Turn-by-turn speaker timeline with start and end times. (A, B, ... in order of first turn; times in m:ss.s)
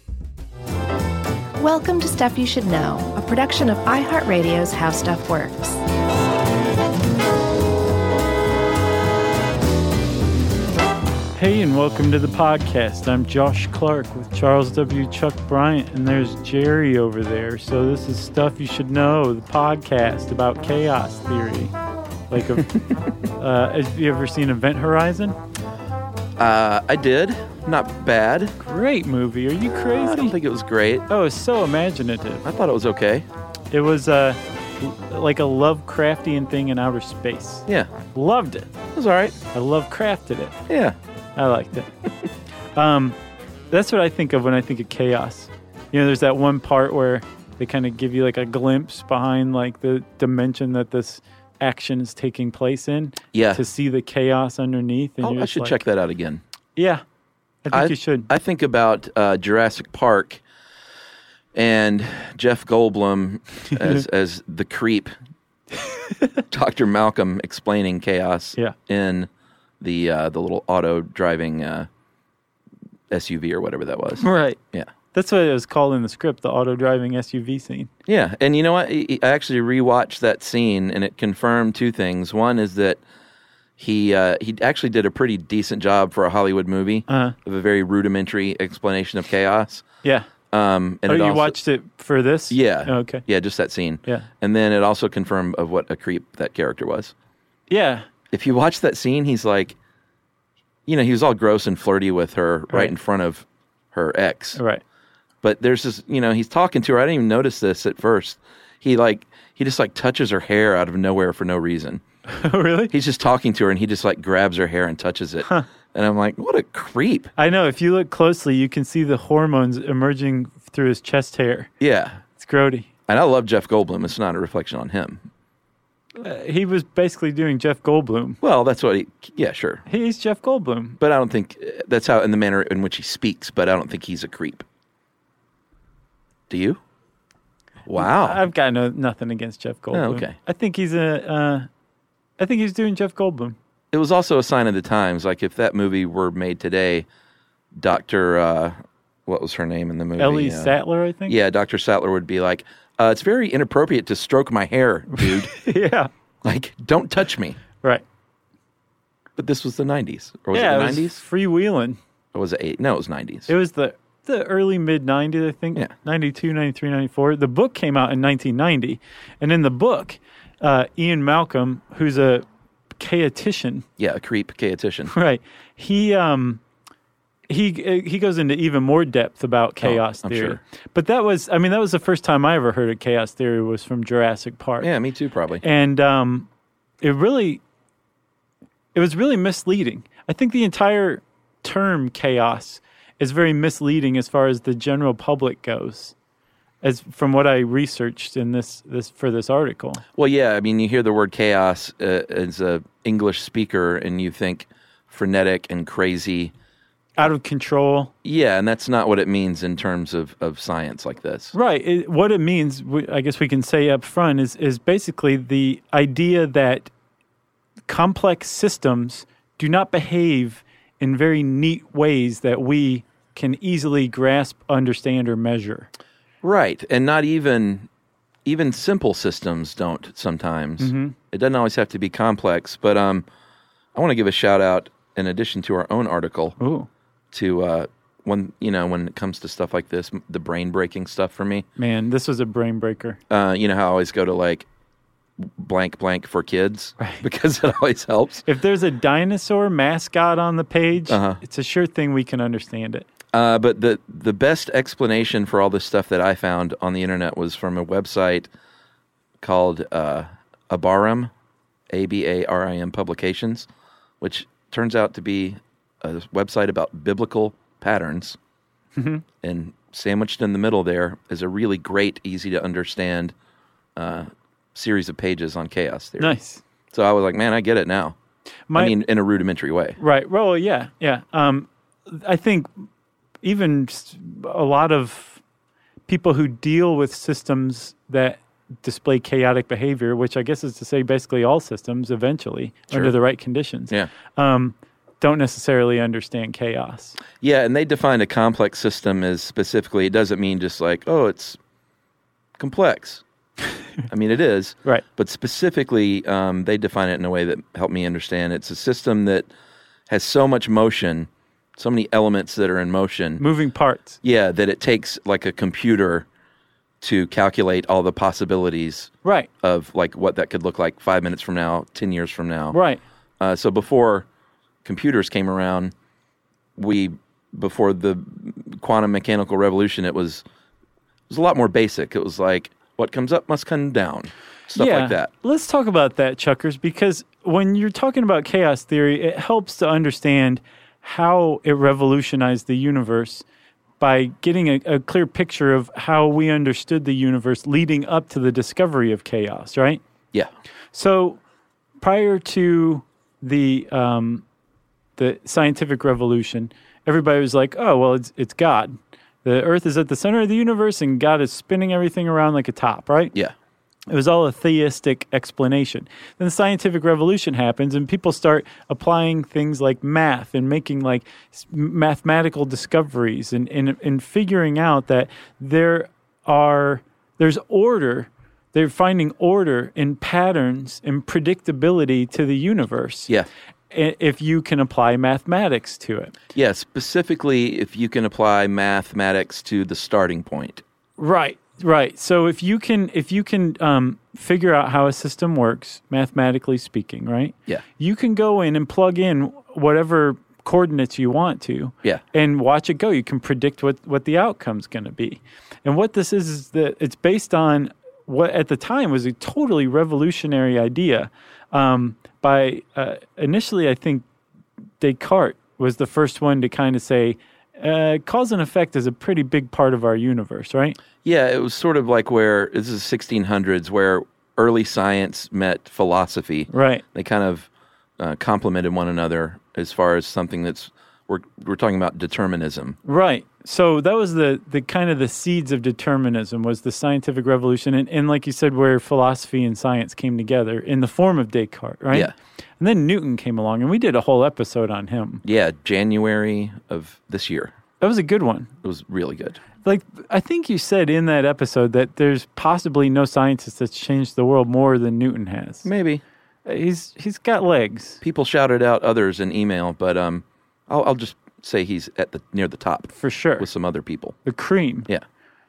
0:01.6-0:05.8 A
0:11.4-0:21.7 B
0:22.3-0:25.4 B
0:26.4-0:28.6 C
0:28.6-0:30.4 B
0:30.0-0:31.1 C
0:31.1-0:32.5 B
0:32.4-0:33.3 C
0:33.7-0:38.8 B
0:39.0-0:39.4 C
0:39.5-0:40.6 B
0:40.7-0:41.0 C
0:41.4-0:41.9 B
0:42.8-0:43.2 B
0:43.7-0:55.8 B
0:53.3-0:53.6 C
0:55.2-0:56.4 C
0:56.8-0:57.0 B
0:57.6-0:58.3 B
0:57.7-1:00.4 C
1:01.5-1:05.2 C
1:06.5-1:11.9 C
1:13.1-1:14.9 C
1:14.2-1:14.6 B
1:15.1-1:17.9 B
1:18.1-1:23.0 C
1:23.8-1:29.8 C
1:27.1-1:27.4 B
1:30.0-1:30.3 B
1:30.5-1:31.6 C
1:31.1-1:33.2 B
1:32.5-1:37.1 C
1:37.7-1:38.0 B
1:38.3-1:39.8 C
1:40.9-1:44.6 C
1:44.6-1:44.8 B
1:45.4-1:52.0 C
1:52.3-1:52.9 B
1:52.9-1:57.3 C
1:57.4-2:01.7 B
2:01.8-2:02.2 C
2:02.4-2:02.9 B
2:03.1-2:05.2 C
2:06.2-2:08.4 B
2:08.4-2:09.8 C
2:09.9-2:11.0 B
2:11.0-2:14.6 C
2:16.5-2:16.8 C
2:17.9-2:18.4 C
2:18.0-2:21.7 B
2:19.9-2:20.4 C
2:22.4-2:23.6 B
2:23.9-2:27.1 C
2:27.8-2:28.8 C
2:29.3-2:30.8 C
2:30.2-2:31.4 B
2:31.3-2:35.5 C
2:35.1-2:36.1 B
2:36.4-2:37.6 C
2:39.4-2:41.2 C
2:40.5-2:42.0 B
2:42.3-2:43.5 C
2:43.5-2:52.4 B
2:53.0-2:53.9 B
2:54.0-2:55.1 C
2:55.1-2:56.6 B
2:57.5-3:04.9 B
2:59.8-3:00.6 C
3:04.8-3:05.6 C
3:05.6-3:06.5 B
3:07.0-3:07.6 B
3:09.0-3:16.2 B
3:16.8-3:20.0 B
3:20.2-3:26.5 C
3:27.2-3:28.1 B
3:28.2-3:31.5 C
3:31.5-3:36.9 B
3:37.9-3:45.9 B
3:46.4-3:47.9 C
3:48.4-3:53.2 C
3:50.8-3:51.2 B
3:54.0-3:56.6 C
3:56.6-3:56.9 B
3:57.3-4:01.7 C
4:01.8-4:03.2 B
4:03.3-4:04.7 C
4:05.4-4:08.4 C
4:08.5-4:13.1 B
4:11.1-4:11.4 C
4:13.3-4:18.5 C
4:19.4-4:21.3 C
4:21.9-4:23.7 C
4:24.2-4:28.4 C
4:29.0-4:29.2 B
4:29.4-4:33.3 C
4:34.0-4:36.4 C
4:36.2-4:36.6 B
4:36.9-4:38.2 C
4:38.7-4:39.0 B
4:38.8-4:40.0 C
4:40.0-4:42.8 B
4:43.4-4:45.4 B
4:46.1-4:57.2 B
4:57.4-5:01.6 C
5:02.6-5:03.2 C
5:04.1-5:09.5 C
5:10.1-5:13.4 C
5:13.4-5:14.2 B
5:14.2-5:16.3 C
5:17.0-5:22.8 C
5:19.2-5:19.5 B
5:22.7-5:23.0 B
5:23.4-5:24.3 C
5:24.8-5:25.9 C
5:26.8-5:30.4 C
5:31.3-5:35.3 C
5:34.8-5:43.4 B
5:44.0-5:50.0 B
5:50.9-5:51.4 B
5:52.0-5:54.4 B
5:55.2-6:03.3 B
6:04.1-6:23.3 B
6:23.9-6:26.4 B
6:26.6-6:30.8 C
6:31.2-6:54.2 B
6:55.0-7:01.0 B
7:01.2-7:07.7 C
7:06.7-7:07.0 B
7:08.2-7:13.0 C
7:13.0-7:25.4 B
7:25.4-7:27.7 C
7:28.0-7:28.7 B
7:28.8-7:29.6 C
7:29.8-7:35.9 B
7:35.8-7:36.2 C
7:36.7-7:38.2 B
7:38.2-7:44.4 C
7:43.2-7:43.7 B
7:44.4-7:45.1 B